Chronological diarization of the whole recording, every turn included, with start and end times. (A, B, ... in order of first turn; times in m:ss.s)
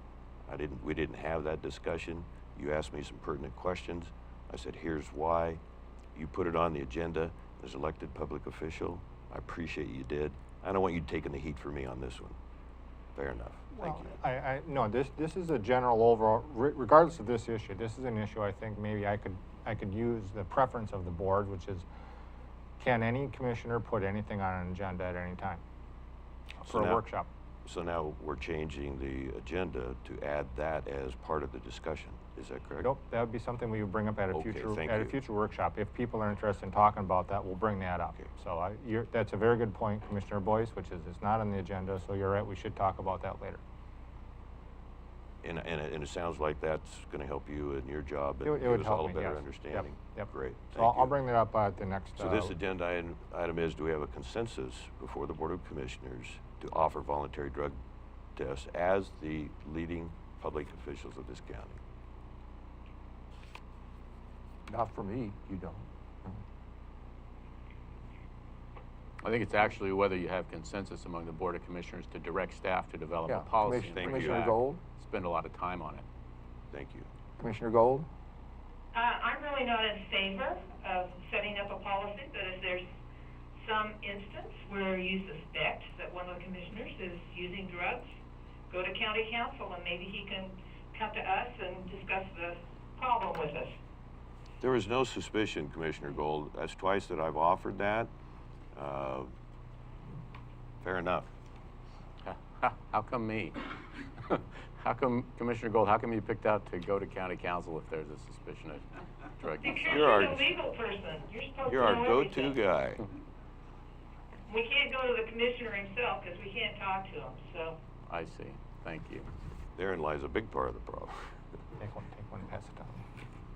0:00.5-0:05.6 A
0:06.2-0:12.4 A
0:13.2-0:14.2 A
0:13.8-0:21.9 B
0:22.8-0:25.6 B
0:26.6-0:27.3 B
0:26.6-0:27.0 A
0:27.6-0:32.9 A
0:32.8-0:43.6 B
0:34.3-0:35.2 A
0:45.4-0:51.1 A
0:48.4-0:52.6 B
0:52.2-0:57.8 A
0:58.4-1:01.8 A
1:04.7-1:06.4 C
1:09.2-1:16.1 D
1:13.3-1:14.8 C
1:13.9-1:14.5 A
1:16.7-1:17.1 A
1:17.4-1:18.1 C
1:18.9-1:22.8 E
1:23.6-1:28.0 E
1:28.7-1:33.8 E
1:34.6-1:38.1 A
1:38.7-1:39.3 A
1:40.8-1:41.3 A
1:42.2-1:50.2 D
1:49.6-1:52.6 E
1:49.9-1:50.4 A
1:51.7-1:53.0 A
1:54.5-1:57.8 E
1:58.1-1:59.3 D
1:59.8-2:01.2 A
2:01.8-2:03.0 B